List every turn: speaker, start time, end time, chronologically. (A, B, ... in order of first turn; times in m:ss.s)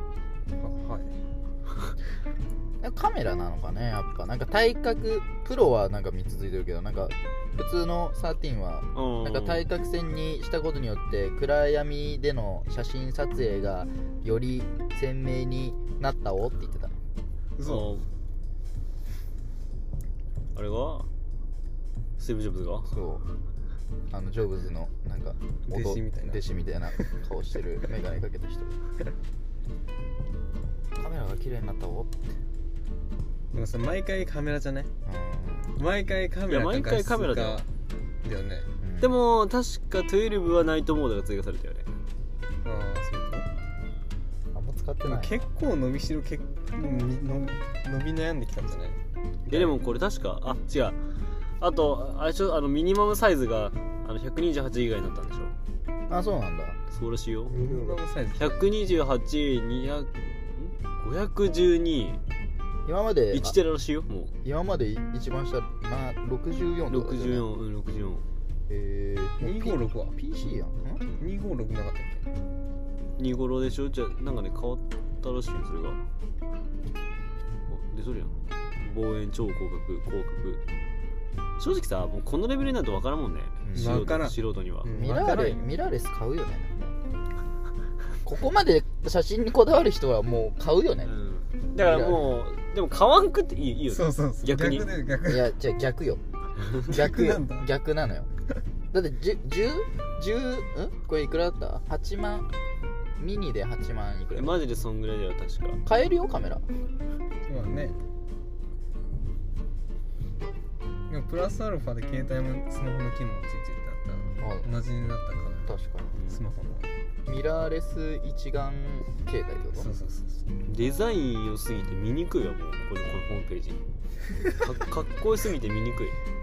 0:00.6-0:01.2 A
0:02.8-0:17.0 B
0:08.9-0:09.7 C
0:17.6-0:17.9 A
0:17.6-0:18.1 C
0:20.6-0:21.1 C
0:22.2-0:22.9 C
0:22.9-0:23.2 B
0:24.1-0:28.8 B
0:25.7-0:26.5 A
0:31.0-0:32.1 B
0:33.5-0:34.9 A
0:35.1-0:35.8 B
0:35.8-0:37.7 A
0:36.5-0:37.6 C
0:38.2-0:38.7 A
0:38.8-0:39.2 B
0:39.0-0:41.9 C
0:42.6-0:43.5 A
0:44.5-0:45.5 B
0:45.0-0:49.8 A
0:49.5-0:51.0 C
0:51.6-0:55.5 C
0:56.1-0:56.8 B
0:56.9-0:57.6 C
0:57.5-0:58.8 A
0:58.4-1:02.2 C
1:02.8-1:03.6 B
1:03.3-1:04.3 C
1:04.4-1:07.4 B
1:06.9-1:08.2 C
1:08.7-1:11.0 B
1:09.4-1:10.2 A
1:11.2-1:12.2 A
1:13.2-1:16.0 C
1:17.7-1:20.6 C
1:21.6-1:24.9 C
1:23.6-1:24.1 B
1:23.8-1:25.7 A
1:24.9-1:26.9 B
1:28.2-1:31.1 B
1:31.0-1:34.9 C
1:31.8-1:32.3 B
1:33.9-1:35.5 A
1:35.2-1:36.2 B
1:36.8-1:37.7 A
1:36.9-1:38.3 B
1:38.9-1:42.5 B
1:43.2-1:44.6 B
1:44.3-1:45.8 C
1:45.9-1:46.6 B
1:47.5-1:48.0 A
1:51.1-1:55.7 A
1:54.4-1:54.7 B
1:55.6-1:56.1 B
1:56.3-1:56.9 A
1:57.3-1:59.9 B
1:59.8-2:00.4 A
2:00.7-2:03.8 C
2:04.5-2:06.2 C